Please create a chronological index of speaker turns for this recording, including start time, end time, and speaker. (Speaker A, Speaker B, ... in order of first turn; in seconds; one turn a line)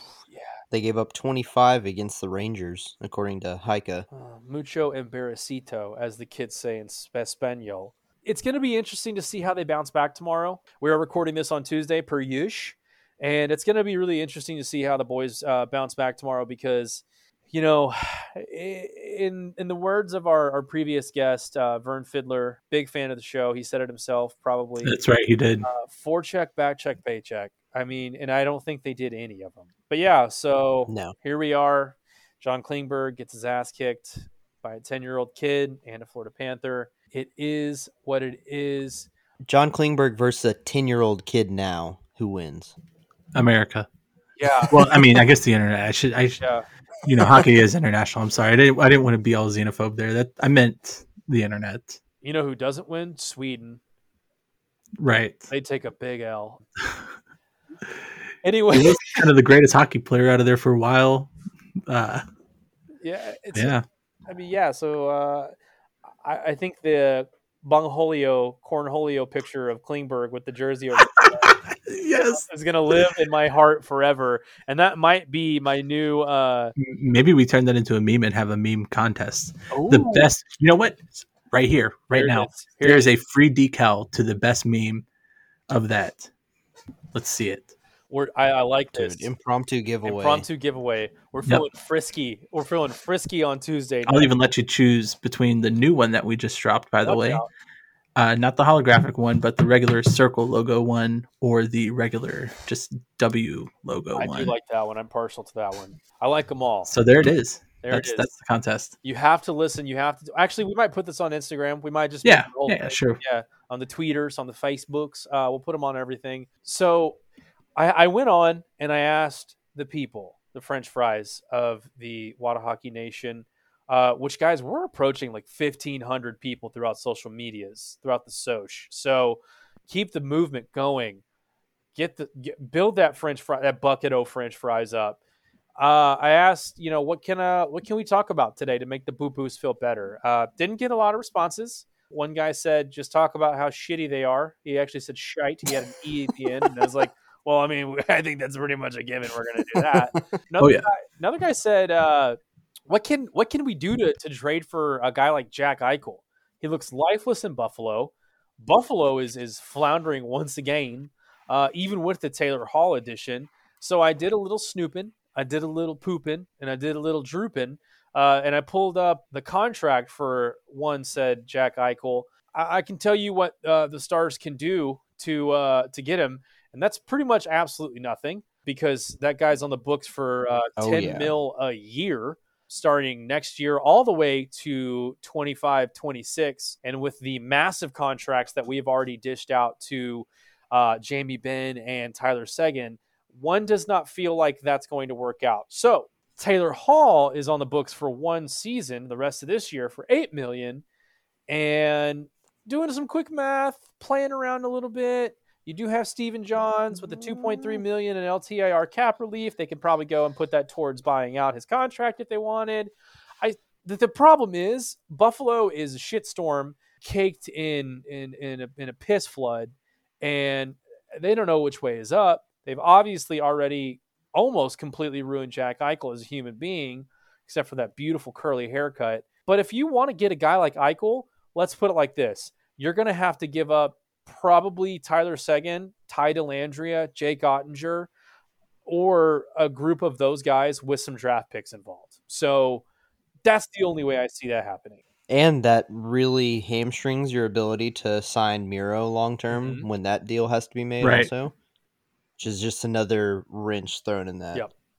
Speaker A: 0.7-4.0
Speaker B: 4.1-24.9
Speaker C: 24.8-25.7
Speaker B: 25.6-39.1
Speaker A: 30.9-31.1
Speaker A: 39.4-42.7
Speaker C: 43.3-43.9
Speaker B: 44.4-44.9
Speaker C: 44.7-46.4
Speaker B: 46.4-46.6
Speaker C: 47.0-52.0
Speaker B: 52.2-53.8
Speaker C: 55.0-55.5
Speaker B: 55.5-56.6
Speaker B: 58.4-59.2
Speaker C: 58.7-61.3
Speaker C: 61.9-62.2
Speaker B: 63.0-63.8
Speaker C: 63.5-63.8
Speaker B: 64.3-65.5
Speaker B: 66.2-71.5
Speaker C: 71.2-72.4
Speaker B: 72.1-76.7
Speaker C: 76.8-85.0
Speaker B: 79.7-80.3
Speaker B: 82.1-83.1
Speaker C: 85.7-86.3
Speaker C: 87.1-87.7
Speaker B: 88.1-89.3
Speaker A: 88.9-90.4
Speaker B: 90.0-94.3
Speaker C: 94.0-97.4
Speaker B: 97.0-97.5
Speaker C: 98.2-104.5
Speaker B: 104.1-106.9
Speaker C: 106.9-108.9
Speaker B: 107.8-108.3
Speaker B: 109.0-117.2
Speaker C: 112.2-113.2
Speaker B: 117.8-131.2
Speaker B: 131.9-135.2
Speaker B: 135.8-152.4
Speaker C: 150.6-150.9
Speaker B: 152.9-200.8
Speaker A: 180.8-181.3
Speaker B: 201.5-238.1
Speaker B: 238.8-242.8
Speaker B: 243.4-245.0
Speaker A: 245.3-251.5
Speaker B: 249.5-249.9
Speaker C: 251.0-251.3
Speaker A: 252.4-254.7